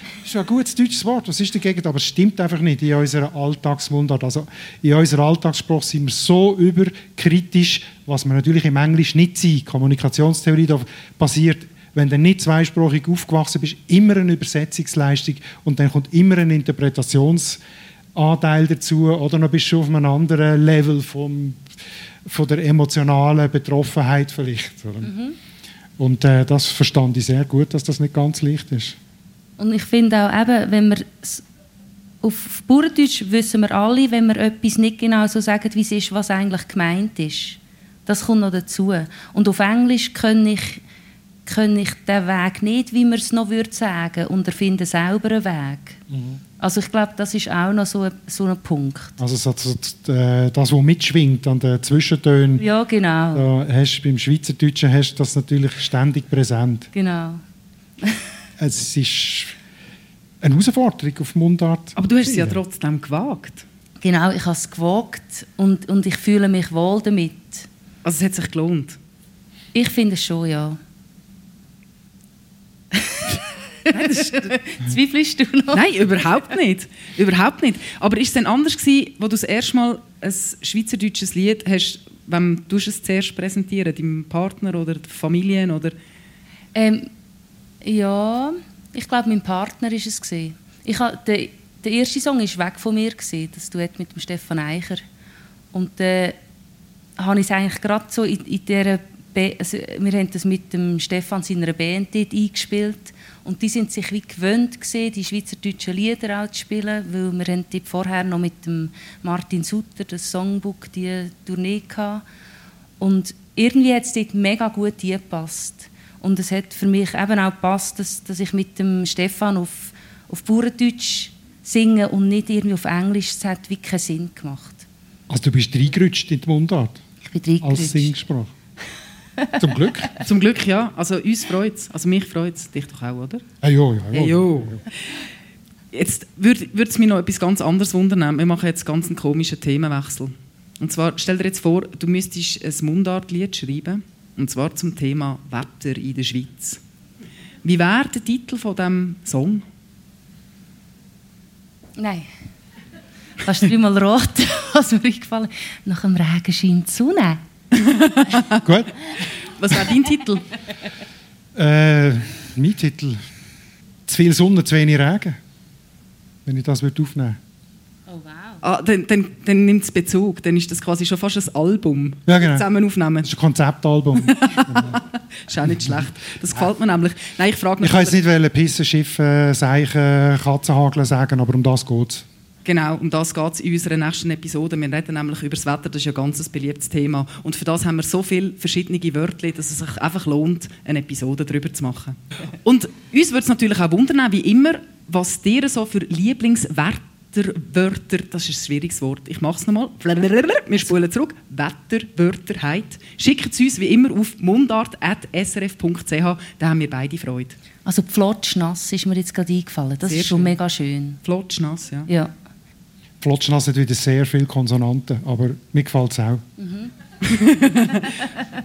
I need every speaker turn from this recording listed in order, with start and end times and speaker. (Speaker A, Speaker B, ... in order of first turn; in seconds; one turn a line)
Speaker A: 0.2-17.6
Speaker A: 18.1-21.6
Speaker A: 22.3-25.1
Speaker B: 25.0-25.4
Speaker A: 26.0-29.0
Speaker B: 29.6-31.4
Speaker B: 32.2-40.8
Speaker B: 41.5-46.0
Speaker A: 46.1-46.4
Speaker B: 46.6-49.2
Speaker A: 49.2-52.6
Speaker B: 52.6-53.5
Speaker A: 53.3-56.9
Speaker B: 56.9-57.4
Speaker A: 58.6-59.6
Speaker A: 60.4-62.6
Speaker C: 62.0-63.6
Speaker B: 64.0-67.7
Speaker C: 68.0-69.0
Speaker B: 69.7-70.8
Speaker B: 73.9-76.0
Speaker C: 75.7-85.9
Speaker B: 86.8-87.1
Speaker B: 87.8-95.0
Speaker B: 95.7-96.4
Speaker B: 97.2-112.2
Speaker B: 113.0-124.9
Speaker A: 125.3-127.0
Speaker B: 127.2-128.1
Speaker A: 127.6-128.5
Speaker A: 129.6-130.2
Speaker C: 130.2-133.4
Speaker A: 133.6-134.8
Speaker C: 134.1-134.8
Speaker C: 135.9-146.8
Speaker C: 147.6-149.6
Speaker B: 152.0-152.3
Speaker B: 153.4-157.4
Speaker C: 157.8-158.6
Speaker A: 158.6-158.9
Speaker C: 159.6-160.4
Speaker A: 161.6-163.2
Speaker A: 164.1-165.4
Speaker A: 166.5-167.4
Speaker B: 168.1-168.6
Speaker C: 168.6-173.3
Speaker A: 172.3-172.7
Speaker A: 173.2-175.0
Speaker C: 174.2-178.2
Speaker A: 175.7-176.7
Speaker A: 177.8-182.3
Speaker C: 182.6-207.6
Speaker B: 207.8-211.2
Speaker C: 210.1-210.6
Speaker C: 211.2-212.1
Speaker A: 213.2-216.4
Speaker B: 216.6-216.9
Speaker C: 217.2-218.2